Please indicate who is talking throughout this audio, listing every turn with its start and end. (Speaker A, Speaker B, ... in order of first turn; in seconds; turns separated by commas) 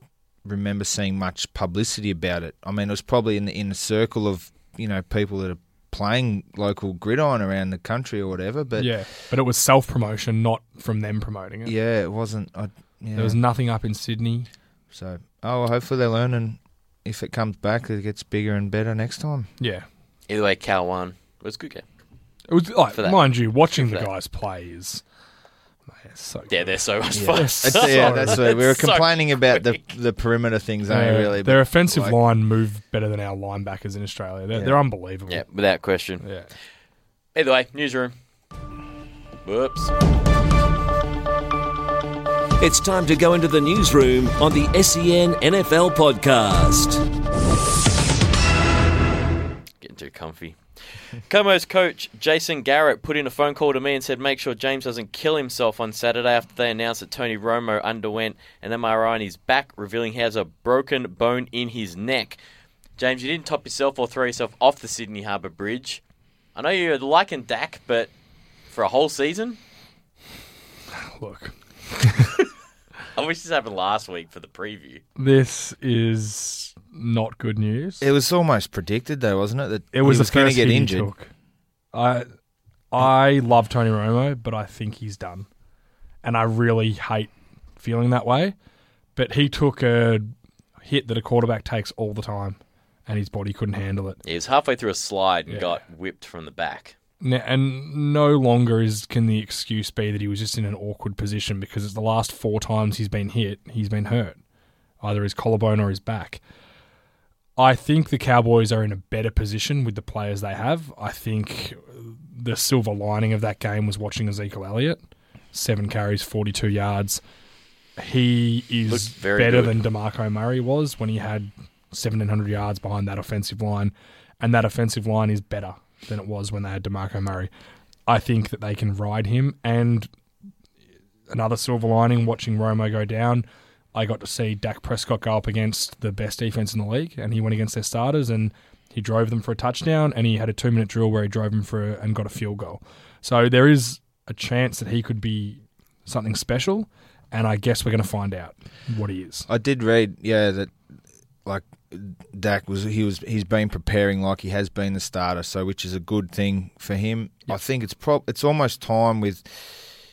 Speaker A: 0.4-8.9, Speaker B: 8.8-11.7, Speaker A: 11.7-13.4, Speaker B: 13.2-14.5, Speaker A: 14.9-19.5, Speaker B: 19.6-19.9, Speaker C: 20.3-21.8, Speaker B: 22.5-25.0, Speaker C: 22.9-24.1, Speaker B: 26.0-28.4, Speaker C: 26.5-29.8, Speaker A: 27.1-32.2, Speaker B: 30.9-35.4, Speaker A: 34.5-34.8, Speaker C: 35.3-36.2, Speaker B: 36.2-36.5, Speaker C: 37.4-38.1, Speaker C: 39.5-39.9, Speaker D: 42.6-47.0, Speaker C: 49.8-62.4, Speaker C: 63.0-66.0, Speaker C: 66.5-68.1, Speaker C: 68.7-69.6, Speaker B: 70.9-72.4, Speaker C: 73.2-75.0, Speaker B: 75.2-78.1, Speaker A: 78.0-81.1, Speaker B: 79.9-81.3, Speaker B: 81.9-82.3, Speaker B: 82.9-85.5, Speaker B: 86.2-88.5, Speaker B: 89.2-90.3, Speaker B: 90.8-94.2, Speaker C: 94.2-97.0, Speaker B: 95.5-95.8, Speaker B: 97.2-104.4, Speaker B: 105.0-106.4, Speaker B: 107.6-115.0, Speaker B: 115.5-117.2, Speaker B: 118.0-127.5, Speaker C: 118.9-119.8, Speaker B: 128.1-130.1, Speaker B: 131.3-149.5, Speaker A: 149.5-150.7, Speaker A: 151.4-159.7